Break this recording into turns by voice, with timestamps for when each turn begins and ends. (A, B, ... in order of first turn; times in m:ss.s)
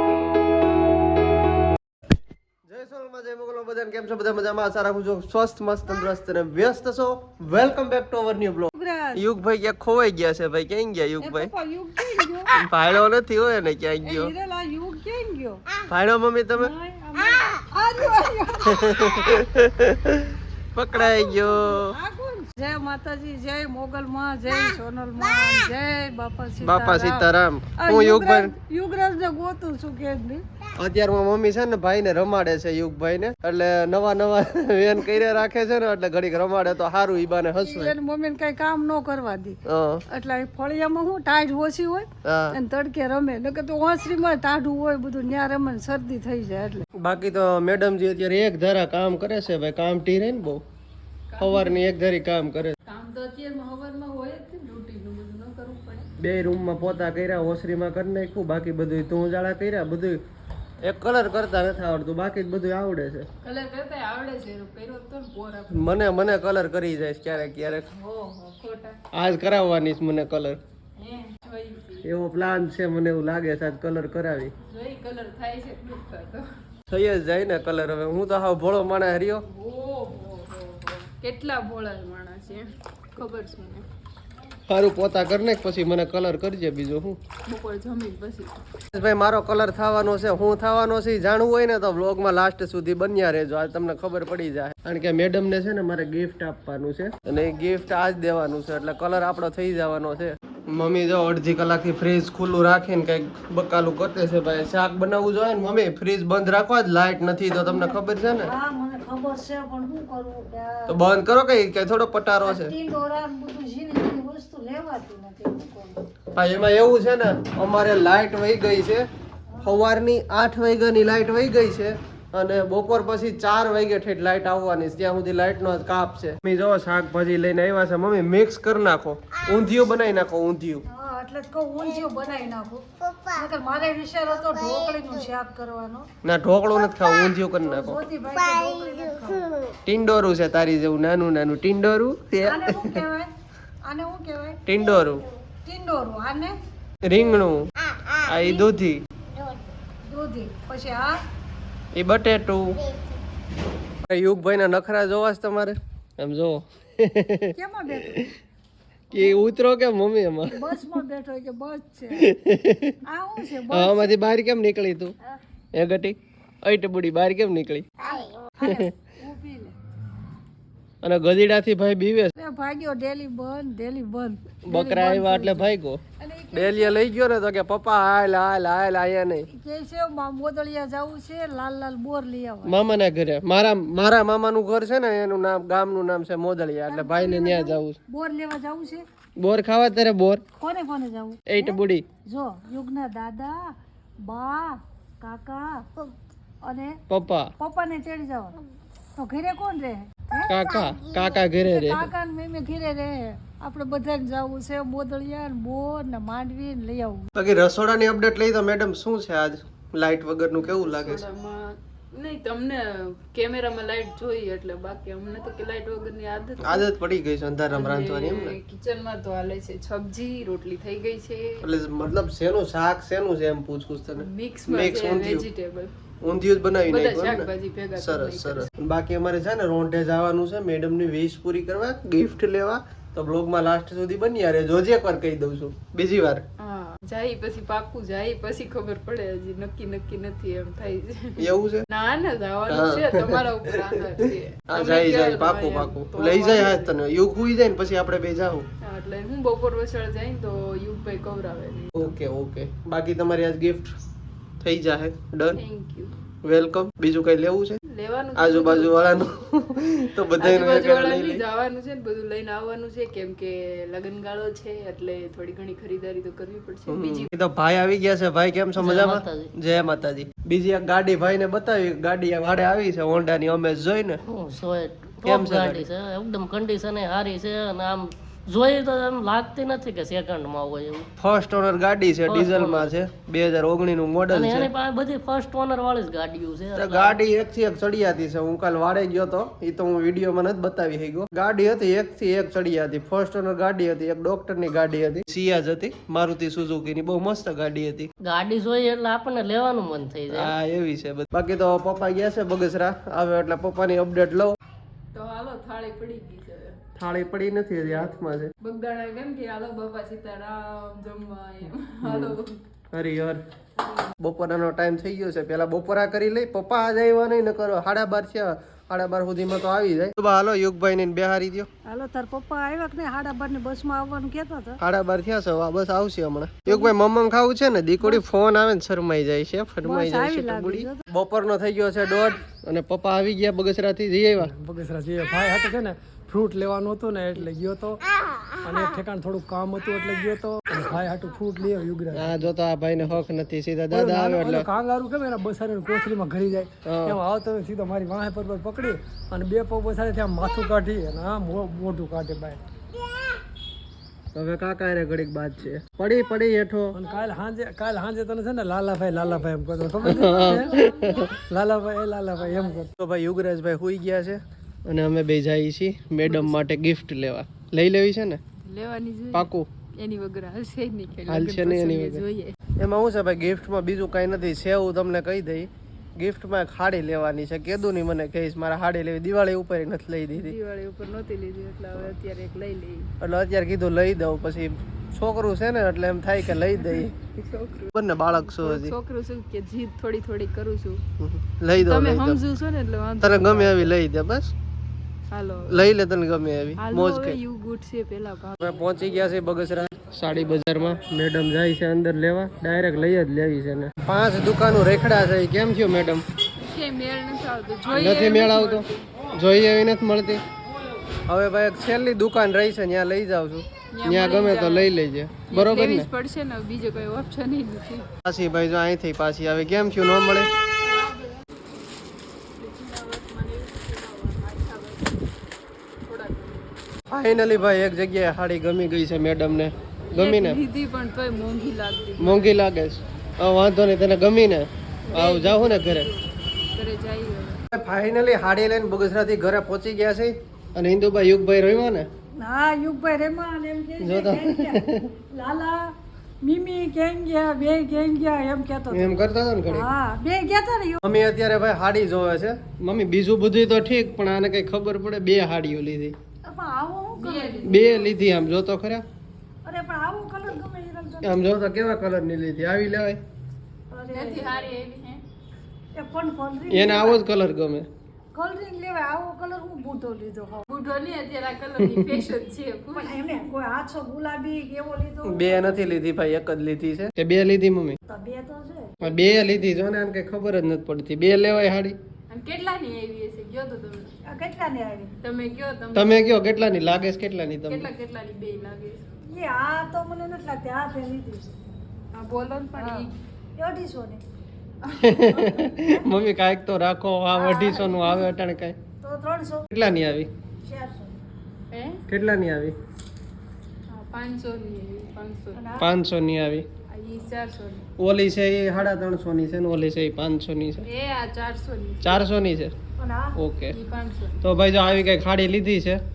0:02.7-0:11.5 A
0:08.7-0:09.2 B
0:11.2-0:12.5 B
0:12.6-0:14.3 A
0:14.0-0:15.6 B
0:15.9-0:16.7 A
0:16.5-0:19.3 B
0:18.7-0:22.0 A
0:20.9-0:30.4 B
0:26.6-0:28.5 A
0:30.8-0:37.9 A
0:37.6-0:46.8 B
0:39.6-0:40.0 A
0:42.2-0:42.6 A
0:47.0-0:50.6 A
0:51.3-0:51.9 C
0:51.4-0:52.7 A
0:52.8-0:56.1 C
0:56.2-1:00.2 A
1:00.8-1:03.3 A
1:03.4-1:05.8 C
1:05.7-1:07.9 A
1:07.9-1:09.0 C
1:09.1-1:10.6 A
1:11.0-1:12.1 C
1:12.0-1:14.5 A
1:14.7-1:16.4 C
1:16.9-1:19.4 A
1:19.5-1:23.8 C
1:24.7-1:27.2 A
1:27.5-1:28.6 C
1:28.9-1:48.5 A
1:47.6-1:51.0 B
1:50.9-1:52.7 A
1:52.4-1:56.0 B
1:56.3-1:59.0 A
1:59.5-1:59.8 B
1:59.6-2:10.8 A
2:10.9-2:16.1 B
2:16.2-2:18.0 A
2:17.6-2:19.6 B
2:19.8-2:23.0 A
2:22.4-2:23.3 B
2:23.8-2:24.6 B
2:24.6-2:25.3 A
2:25.6-2:26.5 B
2:27.0-2:27.7 A
2:28.2-2:29.0 A
2:28.4-2:28.7 B
2:30.1-2:31.1 B
2:31.9-2:32.8 A
2:34.0-2:37.5 A
2:37.5-2:38.3 B
2:39.1-2:40.8 A
2:40.5-2:42.3 B
2:42.1-2:42.9 A
2:43.0-2:44.1 B
2:43.7-2:45.1 A
2:45.7-2:47.9 A
2:48.1-2:49.8 B
2:51.0-2:52.3 A
2:52.4-2:57.0 B
2:54.7-2:56.0 A
2:56.5-2:59.5 A
2:59.5-3:02.8 B
3:02.6-3:08.0 A
3:06.9-3:09.0 B
3:09.4-3:10.4 A
3:10.6-3:15.9 B
3:11.5-3:12.0 A
3:16.6-3:17.0 B
3:17.1-3:17.5 A
3:17.6-3:18.6 B
3:19.2-3:27.3 B
3:20.5-3:22.1 A
3:27.4-3:31.2 A
3:30.6-3:36.9 C
3:36.6-3:38.6 A
3:37.7-3:41.6 C
3:41.6-3:45.4 A
3:44.2-3:45.9 C
3:46.2-3:56.4 A
3:46.9-3:48.7 C
3:56.6-4:06.9 C
4:01.4-4:01.8 A
4:02.7-4:08.7 A
4:08.8-4:12.1 C
4:12.0-4:14.0 A
4:14.6-4:15.6 A
4:15.5-4:16.1 C
4:16.4-4:17.8 A
4:17.9-4:19.0 C
4:18.3-4:21.4 A
4:20.4-4:27.3 C
4:26.9-4:34.2 A
4:28.8-4:29.5 D
4:34.2-4:41.1 D
4:35.2-4:35.9 A
4:41.2-4:44.7 A
4:42.2-4:42.9 D
4:44.3-4:47.2 D
4:46.7-4:58.1 A
4:58.2-5:00.5 D
5:00.3-5:04.6 A
5:05.1-5:06.8 C
5:07.0-5:08.5 A
5:08.6-5:12.6 C
5:12.0-5:12.4 A
5:12.9-5:13.4 A
5:14.2-5:21.7 A
5:21.8-5:24.8 B
5:24.8-5:34.5 A
5:26.7-5:26.9 B
5:29.8-5:31.0 B
5:34.4-5:38.0 E
5:38.6-5:42.5 E
5:42.1-5:44.7 A
5:43.9-5:52.6 E
5:46.8-5:47.2 A
5:54.3-5:57.0 A
5:56.9-6:02.9 E
6:00.0-6:01.3 A
6:03.0-6:08.4 A
6:06.2-6:06.6 C
6:08.6-6:12.6 C
6:09.3-6:09.7 A
6:11.3-6:12.2 A
6:12.8-6:20.5 A
6:20.3-6:23.1 C
6:23.2-6:27.1 A
6:26.7-6:31.0 C
6:27.9-6:28.9 A
6:31.2-6:32.4 A
6:31.7-6:33.9 C
6:33.2-6:34.5 A
6:35.3-6:35.9 C
6:35.7-6:37.4 A
6:36.8-6:38.7 C
6:38.6-6:46.2 A
6:46.6-6:49.1 C
6:47.9-6:50.4 A
6:51.3-6:56.1 A
6:53.9-6:54.9 C
6:55.5-6:58.1 C
6:58.2-7:00.5 A
7:00.8-7:01.5 C
7:02.6-7:05.2 C
7:06.1-7:06.8 C
7:07.1-7:10.6 A
7:10.1-7:12.6 C
7:12.2-7:16.1 A
7:15.1-7:17.6 C
7:17.7-7:22.1 A
7:22.4-7:25.9 B
7:24.0-7:25.0 A
7:26.4-7:29.2 B
7:28.9-7:29.9 A
7:29.7-7:31.0 B
7:31.0-7:36.1 A
7:36.4-7:37.8 B
7:37.2-7:38.0 C
7:37.6-7:39.0 A
7:39.6-7:41.3 B
7:41.2-7:43.2 A
7:43.9-7:44.7 B
7:44.1-7:45.2 C
7:45.9-7:47.2 B
7:46.7-7:47.9 A
7:48.3-7:50.6 B
7:50.7-7:53.4 C
7:51.8-7:52.1 A
7:52.9-7:56.0 B
7:55.2-7:58.0 A
7:58.1-7:59.0 B
7:59.0-8:02.0 A
8:02.3-8:04.1 C
8:04.2-8:05.1 B
8:05.2-8:06.2 C
8:05.9-8:07.9 A
8:07.6-8:09.0 C
8:09.3-8:11.5 B
8:12.1-8:13.2 C
8:12.7-8:14.2 B
8:14.8-8:15.8 C
8:15.0-8:18.8 A
8:17.4-8:18.3 C
8:19.0-8:19.7 B
8:19.7-8:20.3 A
8:20.6-8:21.2 B
8:21.7-8:22.0 C
8:22.1-8:22.7 A
8:23.9-8:25.8 C
8:25.5-8:25.9 B
8:25.8-8:26.6 A
8:26.9-8:27.8 C
8:28.0-8:30.8 A
8:30.8-8:32.2 C
8:32.0-8:32.7 A
8:33.0-8:33.4 B
8:33.4-8:33.7 A
8:33.7-8:34.4 C
8:34.4-8:36.0 A